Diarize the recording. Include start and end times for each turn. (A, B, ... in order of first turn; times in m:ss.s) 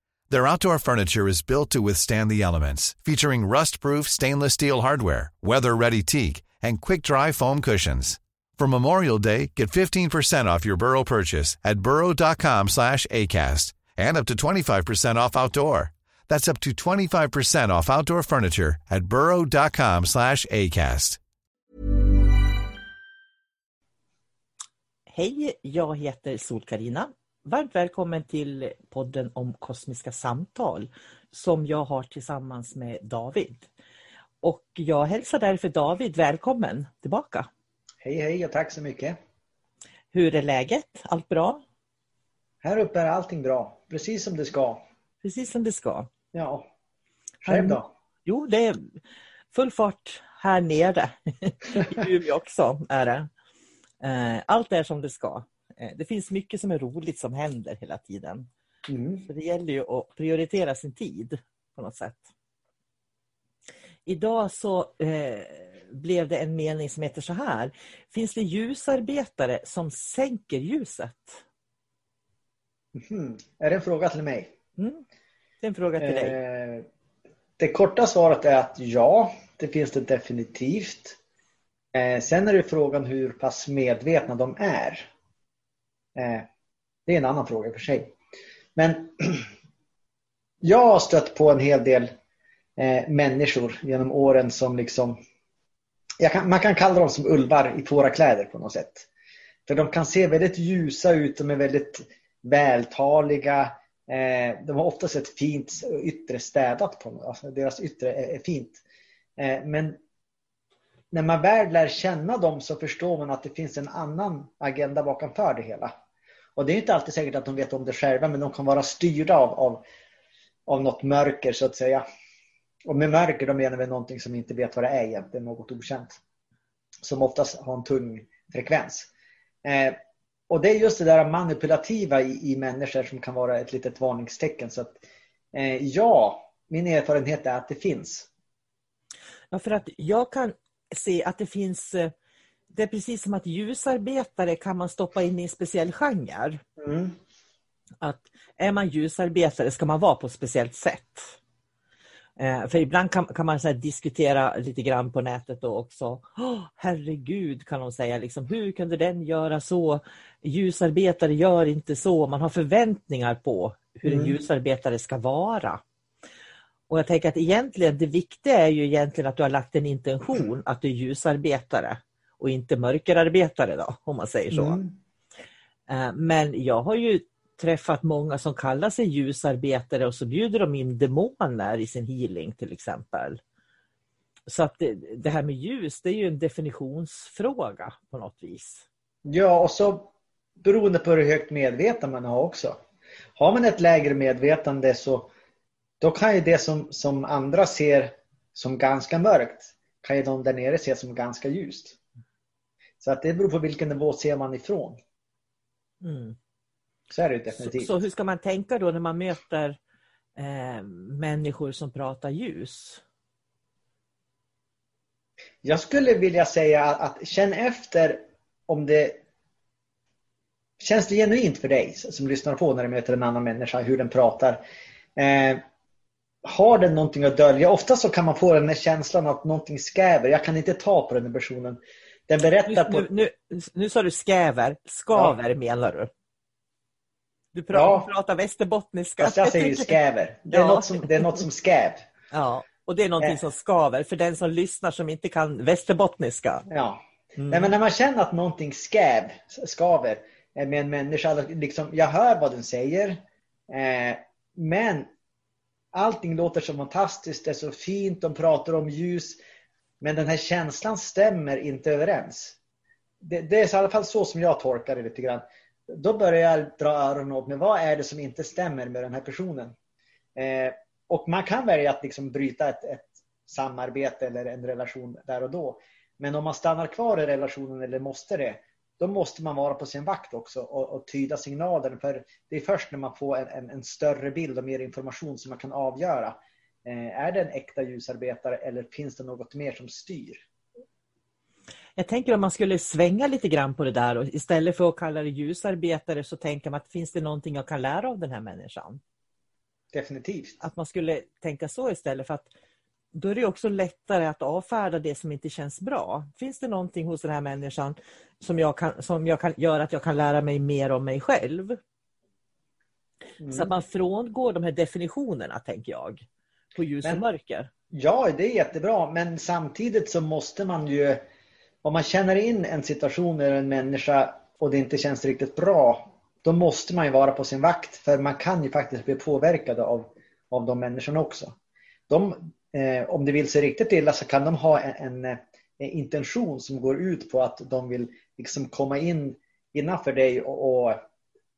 0:00.3-0:21.2 A
0:25.1-0:33.7 B
0:34.4-0:37.5 B
0:38.0-0:39.2 C
0:40.1-0:41.6 B
0:42.6-0:44.8 C
0:45.2-0:46.1 B
0:46.3-0:46.7 C
0:47.4-0:47.9 C
0:47.5-0:48.9 B
0:49.5-0:53.3 B
0:54.0-0:58.5 B
0:58.9-0:59.2 C
0:59.2-1:02.3 B
1:04.1-1:11.4 B
1:13.0-1:14.5 C
1:14.8-1:15.0 B
1:15.6-1:16.4 B
1:16.0-1:16.9 C
1:17.6-1:21.2 C
1:21.9-1:25.1 C
1:26.2-1:26.5 C
1:27.1-1:28.2 C
1:28.8-1:29.5 C
1:30.6-1:32.1 C
1:32.8-1:35.2 C
1:36.2-1:39.1 C
1:39.7-1:48.8 C
1:49.4-1:50.0 C
1:51.1-1:55.9 C
1:56.6-1:59.8 C
2:00.7-2:02.0 C
2:02.9-2:06.2 C
2:07.0-2:09.1 C
2:09.6-2:18.3 C
2:19.5-2:22.1 B
2:22.7-2:26.6 B
2:26.8-2:27.2 C
2:28.0-2:31.3 B
2:32.4-2:45.8 B
2:44.0-2:44.4 C
2:46.9-2:54.8 B
2:54.5-2:54.9 C
2:55.9-3:03.4 B
3:04.5-3:08.8 B
3:09.2-3:12.8 C
3:13.4-3:15.3 C
3:16.0-3:22.0 C
3:23.0-3:25.0 C
3:26.0-3:26.4 B
3:27.1-3:28.0 C
3:27.5-3:29.8 B
3:30.4-3:33.0 B
3:35.6-3:39.2 C
3:40.8-3:44.6 C
3:45.2-3:45.6 C
3:46.4-3:53.1 C
3:52.7-3:56.1 B
3:57.5-4:00.0 B
3:57.7-3:58.1 C
3:59.2-4:02.1 C
4:00.5-4:01.4 B
4:02.3-4:06.7 B
4:06.7-4:15.1 C
4:07.4-4:07.7 B
4:15.9-4:19.4 C
4:20.0-4:22.6 C
4:23.2-4:29.8 C
4:30.4-4:50.4 C
4:52.0-4:59.0 B
4:59.9-5:00.6 C
5:00.6-5:02.5 B
5:03.1-5:11.8 B
5:13.4-5:13.7 C
5:13.5-5:17.7 B
5:17.9-5:21.2 C
5:21.8-5:31.6 C
5:32.1-5:41.0 C